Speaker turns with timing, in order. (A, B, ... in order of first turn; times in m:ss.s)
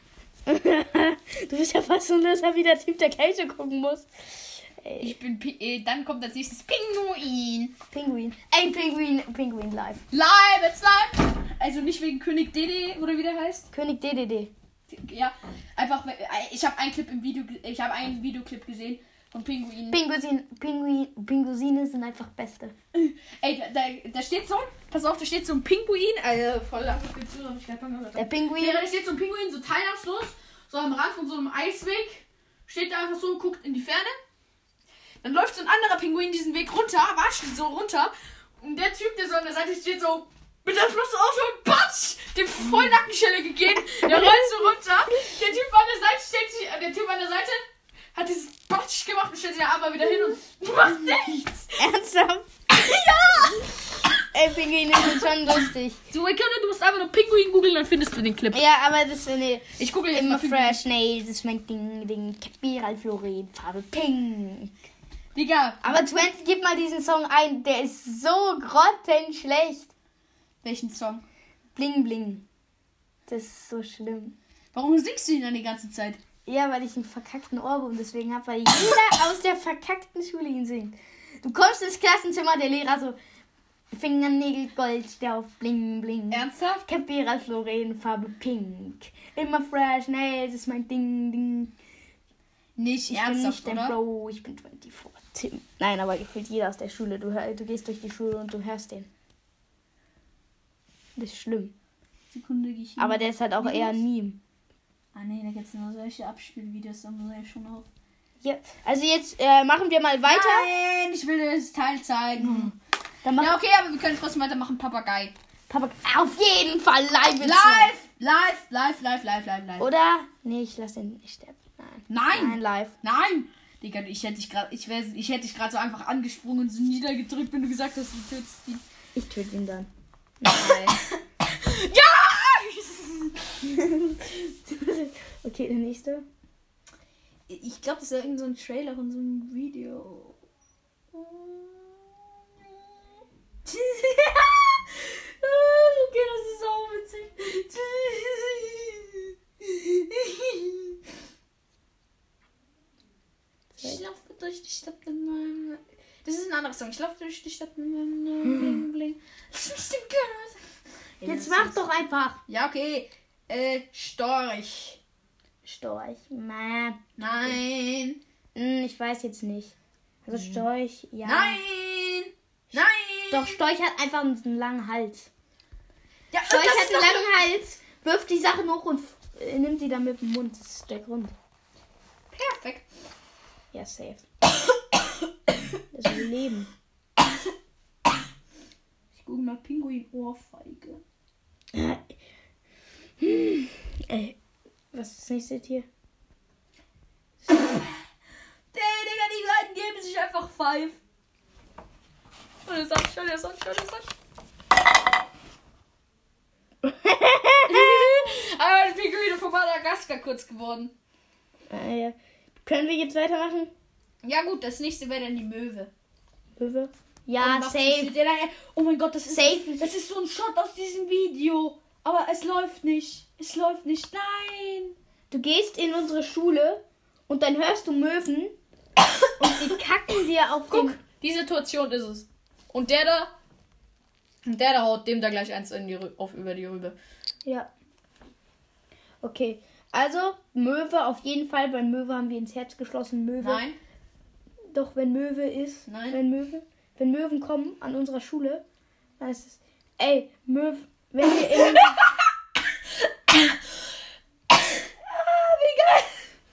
0:00.5-0:05.2 A
0:05.0-0:07.8 B
0:07.9-0:10.0 A
0:10.1-0:13.7 B
0:13.7-0:14.5 A
0:14.9-0:20.0 B
0:19.9-0:22.8 A
0:22.9-0:34.2 B
0:28.2-0:28.9 A
0:35.2-0:51.8 B
0:43.9-0:44.7 A
0:51.8-0:52.5 A
0:52.7-0:53.7 B
0:54.3-0:56.0 A
0:56.1-0:58.6 B
0:58.5-1:04.7 A
0:59.8-1:00.8 B
1:05.4-1:06.0 B
1:05.8-1:09.9 A
1:10.6-1:11.2 B
1:11.8-1:12.4 A
1:13.3-1:14.4 A
1:14.7-1:16.2 B
1:16.5-1:23.2 A
1:23.9-1:31.7 A
1:26.3-1:26.9 B
1:32.8-1:34.0 B
1:33.1-1:39.1 A
1:41.2-1:41.7 A
1:42.3-1:44.0 B
1:43.0-1:44.4 A
1:45.1-1:47.9 B
1:48.4-1:50.7 A
1:50.2-1:52.7 B
1:52.4-1:53.6 A
1:53.4-1:55.4 B
1:55.7-1:57.9 A
1:57.4-1:59.9 B
1:59.8-2:02.9 A
2:02.1-2:08.8 B
2:09.2-2:09.9 A
2:10.4-2:11.0 A
2:10.5-2:13.5 B
2:13.6-2:16.3 A
2:17.5-2:20.4 B
2:21.1-2:22.8 B
2:23.7-2:31.0 B
2:33.8-2:40.6 B
2:41.2-2:41.9 B
2:41.2-2:42.4 A
2:42.5-2:45.0 B
2:45.6-2:47.6 A
2:47.2-2:48.2 B
2:48.6-2:49.7 A
2:50.2-2:51.6 A
2:50.4-2:50.6 B
2:51.2-2:53.6 B
2:52.8-2:55.3 A
2:56.3-2:57.4 B
2:56.5-3:01.4 A
3:02.3-3:02.9 B
3:03.7-3:04.2 A
3:05.9-3:06.7 A
3:09.1-3:11.0 B
3:11.7-3:12.1 A
3:13.2-3:14.4 A
3:14.9-3:15.9 A
3:17.5-3:18.0 B
3:18.7-3:21.0 B
3:22.6-3:24.1 B
3:26.8-3:28.3 A
3:27.7-3:30.9 B
3:31.7-3:33.7 A
3:34.2-3:35.9 B
3:36.6-3:38.1 A
3:37.4-3:45.0 B
3:39.3-3:39.9 A
3:45.3-3:48.6 A
3:49.4-3:51.0 A
3:50.7-3:53.3 B
3:54.4-3:57.0 B
3:57.4-3:57.7 A
3:59.2-4:03.6 A
4:03.4-4:03.8 B
4:04.7-4:08.6 A
4:05.9-4:06.2 B
4:09.2-4:12.0 A
4:11.5-4:11.9 B
4:13.3-4:13.6 B
4:14.5-4:16.2 B